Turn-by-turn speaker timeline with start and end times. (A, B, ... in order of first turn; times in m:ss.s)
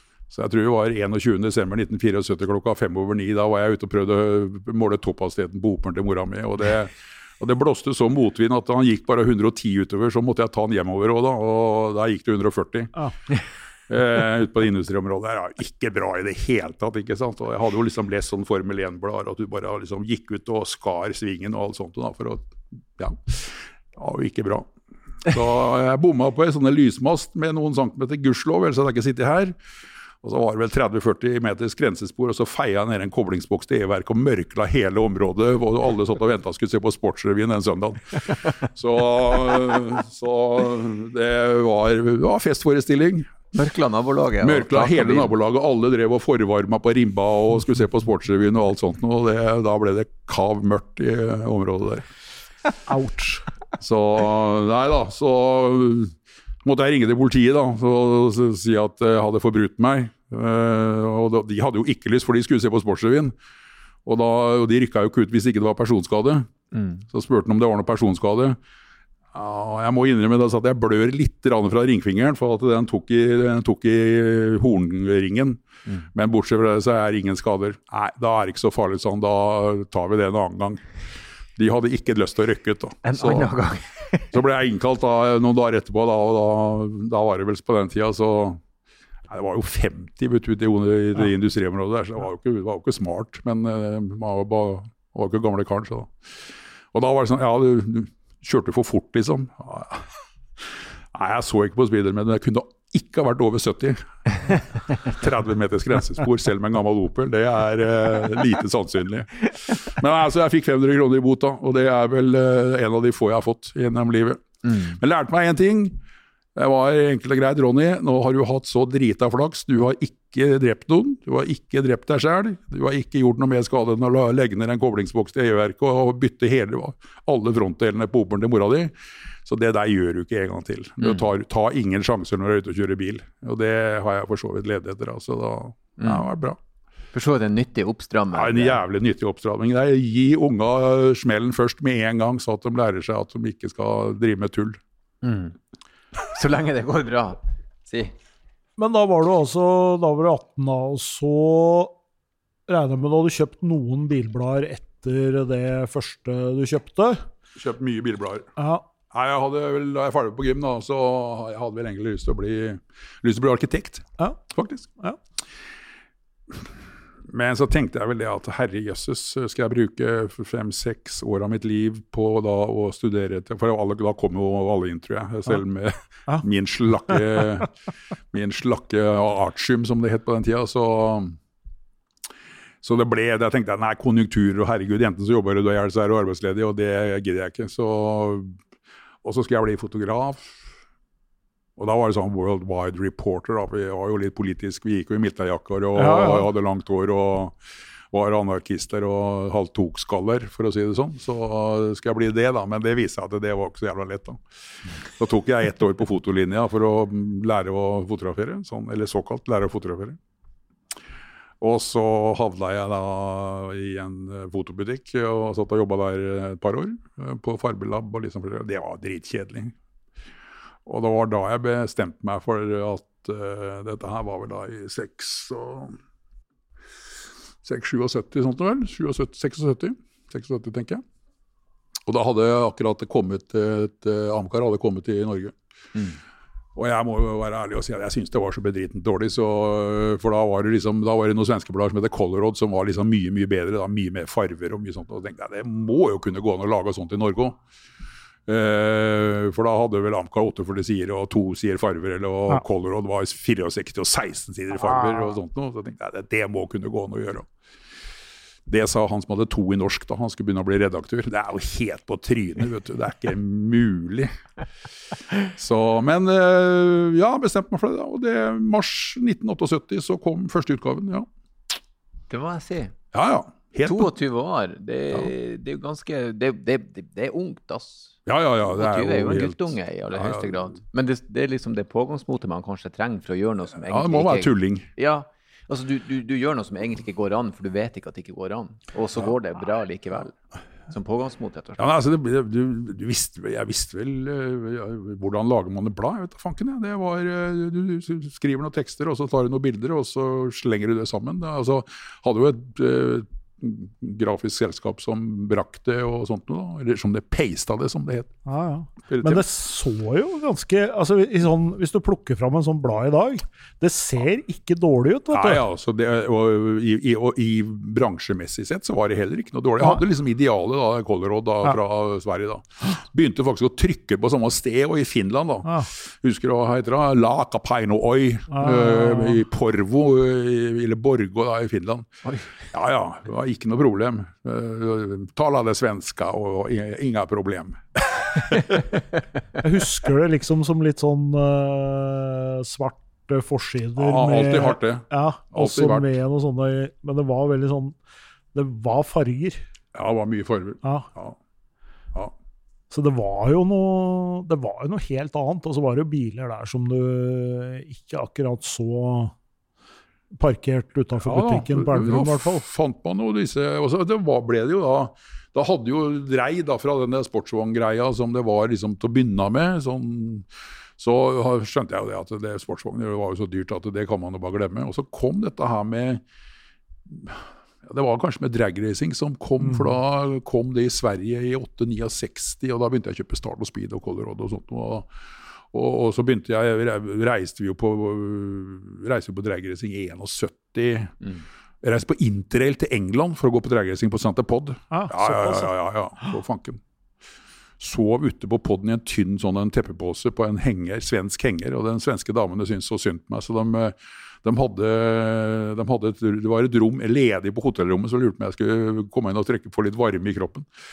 0:00.3-0:12.9 A
0:13.9-0:24.7 A
0:25.2-0:29.6 A
0:30.2-0:43.3 A
0:43.5-0:45.3 B
0:44.4-0:52.0 A
0:52.8-0:53.5 C
0:53.8-1:03.3 A
1:04.0-1:06.5 A
1:06.7-1:07.0 B
1:07.0-1:08.6 A
1:09.3-1:15.6 A
1:16.1-1:20.8 A
1:21.6-1:23.5 A
1:23.0-1:24.4 B
1:24.3-1:28.6 A
1:29.3-1:36.1 A
1:36.9-1:40.1 A
1:40.6-1:56.0 A
1:54.7-1:54.9 B
1:56.5-2:08.9 A
2:09.4-2:16.6 A
2:16.0-2:16.2 B
2:17.1-2:18.8 B
2:18.3-2:24.8 A
2:25.2-2:25.6 B
2:26.2-2:28.1 B
2:28.8-2:31.9 C
2:32.7-2:37.2 C
2:37.6-2:38.5 A
2:38.6-2:38.8 C
2:39.1-2:44.9 A
2:47.3-2:57.7 A
2:58.3-3:01.4 A
3:02.8-3:08.6 A
3:09.2-3:10.6 A
3:11.8-3:17.6 A
3:16.0-3:16.5 C
3:18.1-3:24.4 A
3:25.1-3:30.2 A
3:31.6-3:39.8 A
3:40.8-3:46.0 A
3:47.6-3:51.0 A
3:52.0-3:55.5 A
3:56.7-4:07.6 A
4:08.4-4:17.5 A
4:18.6-4:24.3 A
4:25.4-4:31.3 A
4:32.3-4:32.9 B
4:33.1-4:34.1 A
4:33.8-4:50.4 B
4:38.2-4:40.7 A
4:43.8-4:44.9 A
4:50.9-4:51.8 B
4:51.8-5:08.3 A
5:08.4-5:15.6 C
5:09.1-5:09.4 A
5:15.3-5:32.2 A
5:28.5-5:29.4 C
5:32.7-5:39.0 A
5:39.6-5:48.0 C
5:44.0-5:46.1 A
5:48.5-5:49.6 C
5:49.9-5:51.4 A
5:52.9-5:59.3 C
6:00.3-6:02.6 C
6:01.2-6:16.2 A
6:17.1-6:25.1 A
6:25.7-6:31.3 A
6:31.8-6:36.8 A
6:34.9-6:35.7 C
6:37.8-6:50.7 A